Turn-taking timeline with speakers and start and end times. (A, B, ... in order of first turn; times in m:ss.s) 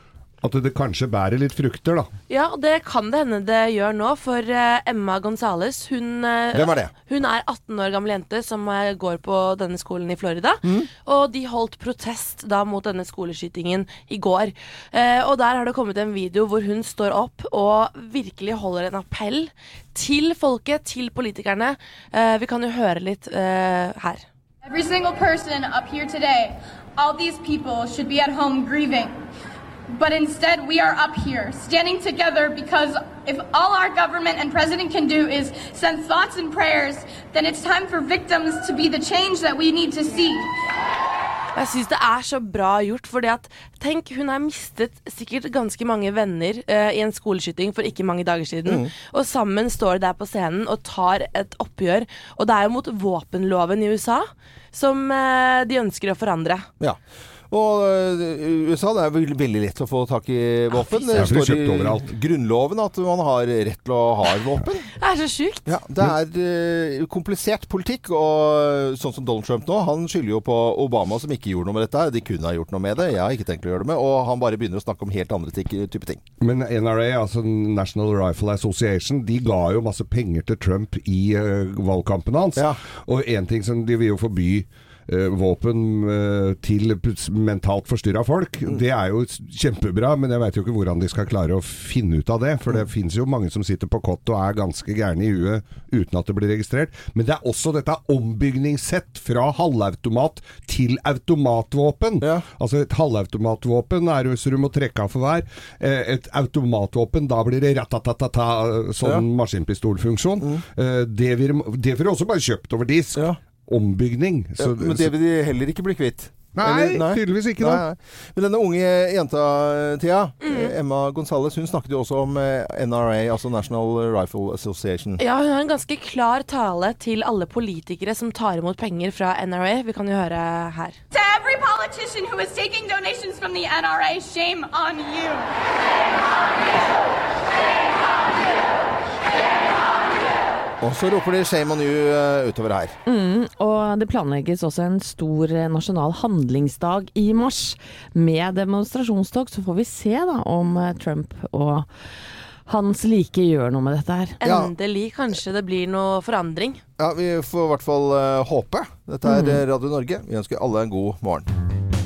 0:00.4-0:02.1 A
0:02.3-0:24.2 B
0:06.5-0:06.9 C
0:24.6-0:29.2 D
0:29.9-0:40.5 D
0:41.6-0:56.7 B
0:48.7-0:48.9 C
0:56.8-1:04.9 C
1:00.7-1:01.3 B
1:01.1-1:02.1 A
1:05.0-1:05.7 B
1:05.7-1:16.2 C
1:16.4-1:55.1 A
1:54.6-2:05.2 C
1:56.6-1:57.8 A
2:00.4-2:00.7 B
2:05.2-2:11.0 B
2:11.1-2:15.5 D
2:20.8-2:23.0 C
2:23.1-2:31.9 E
2:32.7-2:34.4 E
2:34.4-2:36.8 B
2:34.4-2:34.7 C
2:37.0-2:41.5 C
2:39.2-2:39.6 E